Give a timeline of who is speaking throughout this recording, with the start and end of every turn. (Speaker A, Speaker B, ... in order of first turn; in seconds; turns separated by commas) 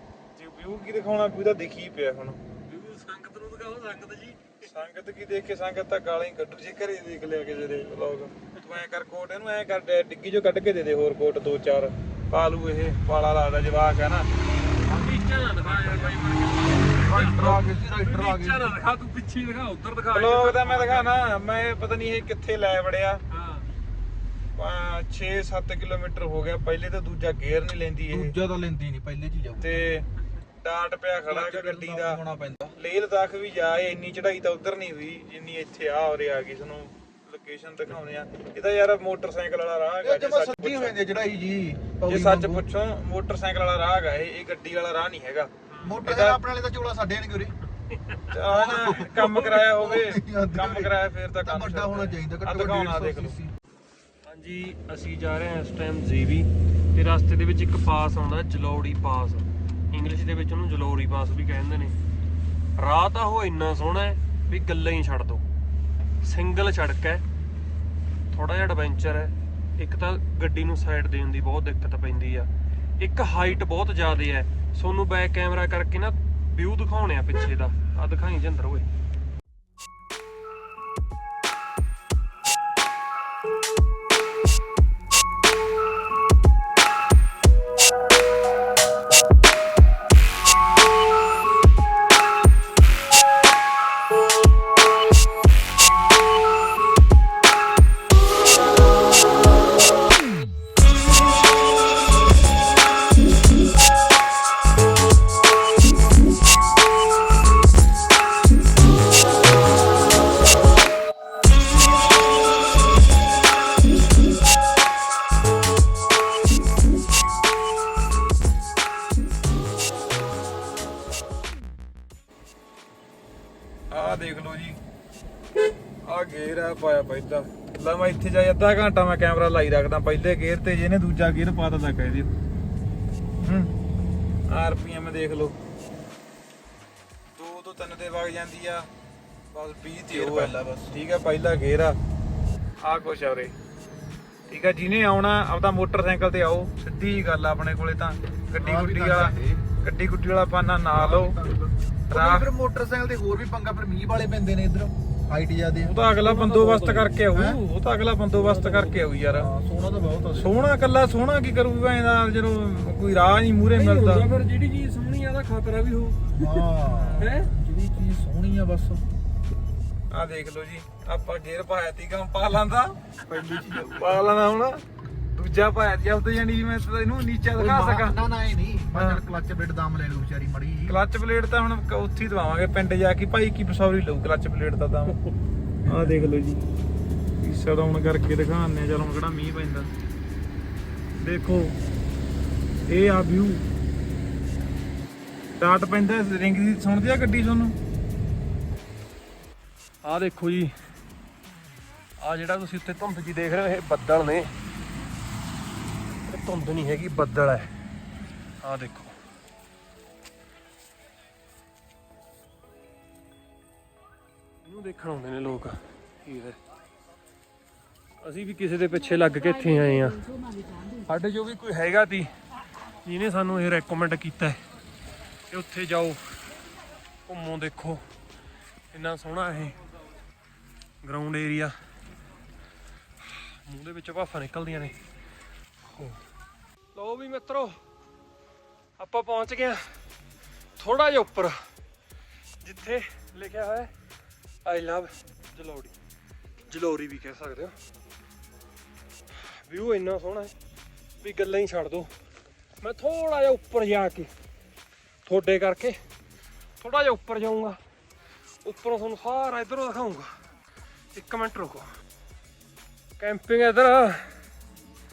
Speaker A: 0.3-2.4, Speaker B: 2.6-4.7, Speaker A: 4.6-14.3, Speaker B: 14.8-21.1, Speaker A: 15.7-16.1, Speaker C: 16.9-18.8, Speaker A: 20.1-23.2, Speaker B: 23.3-23.7, Speaker A: 24.6-28.3, Speaker C: 28.1-29.8, Speaker A: 29.6-30.1, Speaker A: 30.6-32.2, Speaker C: 31.3-32.7, Speaker A: 32.8-41.0, Speaker C: 40.0-42.6, Speaker A: 42.1-46.4, Speaker B: 45.7-46.0, Speaker C: 45.8-47.5, Speaker B: 47.9-48.3, Speaker A: 48.3-53.4, Speaker C: 48.5-53.5, Speaker B: 54.2-61.9, Speaker B: 62.8-65.4, Speaker B: 66.2-67.2, Speaker B: 68.3-78.9, Speaker A: 123.9-124.8, Speaker A: 126.1-132.3, Speaker A: 133.4-133.7, Speaker A: 134.5-135.6, Speaker A: 137.3-138.8, Speaker A: 139.5-142.0, Speaker C: 140.1-140.9, Speaker A: 142.8-143.5, Speaker A: 144.5-151.3, Speaker C: 148.6-149.7, Speaker C: 150.9-155.9, Speaker A: 152.1-152.5, Speaker A: 155.8-159.5, Speaker B: 156.1-157.2, Speaker C: 157.3-157.6, Speaker B: 158.3-159.1, Speaker C: 159.3-160.5, Speaker A: 160.4-164.2, Speaker B: 163.7-166.6, Speaker C: 166.3-169.0, Speaker A: 166.8-167.3, Speaker B: 167.2-167.5, Speaker A: 170.1-173.0, Speaker C: 173.2-174.2, Speaker A: 173.9-174.8, Speaker A: 175.3-178.2, Speaker C: 177.6-181.0, Speaker A: 178.9-179.2, Speaker A: 180.9-185.2, Speaker A: 185.9-186.6, Speaker A: 187.4-189.9, Speaker A: 191.2-191.8, Speaker A: 192.9-193.6, Speaker A: 195.6-197.8, Speaker B: 200.0-200.7, Speaker B: 202.2-204.5, Speaker B: 206.2-207.7, Speaker B: 208.6-209.1, Speaker B: 214.6-216.6, Speaker B: 218.2-220.3, Speaker B: 220.8-222.3, Speaker B: 223.0-224.6, Speaker B: 225.5-226.2, Speaker B: 227.3-228.0, Speaker B: 228.9-229.8, Speaker B: 231.0-231.7, Speaker B: 233.2-234.9, Speaker B: 235.8-236.2, Speaker B: 236.9-237.7, Speaker B: 239.0-239.8, Speaker B: 240.8-241.6, Speaker B: 242.6-243.9, Speaker B: 244.6-245.9, Speaker B: 246.7-247.7, Speaker B: 249.3-250.5, Speaker B: 251.2-252.1, Speaker B: 252.8-254.3, Speaker B: 255.2-256.0, Speaker B: 256.8-257.8, Speaker B: 258.6-260.3, Speaker B: 261.1-261.9, Speaker B: 263.2-264.4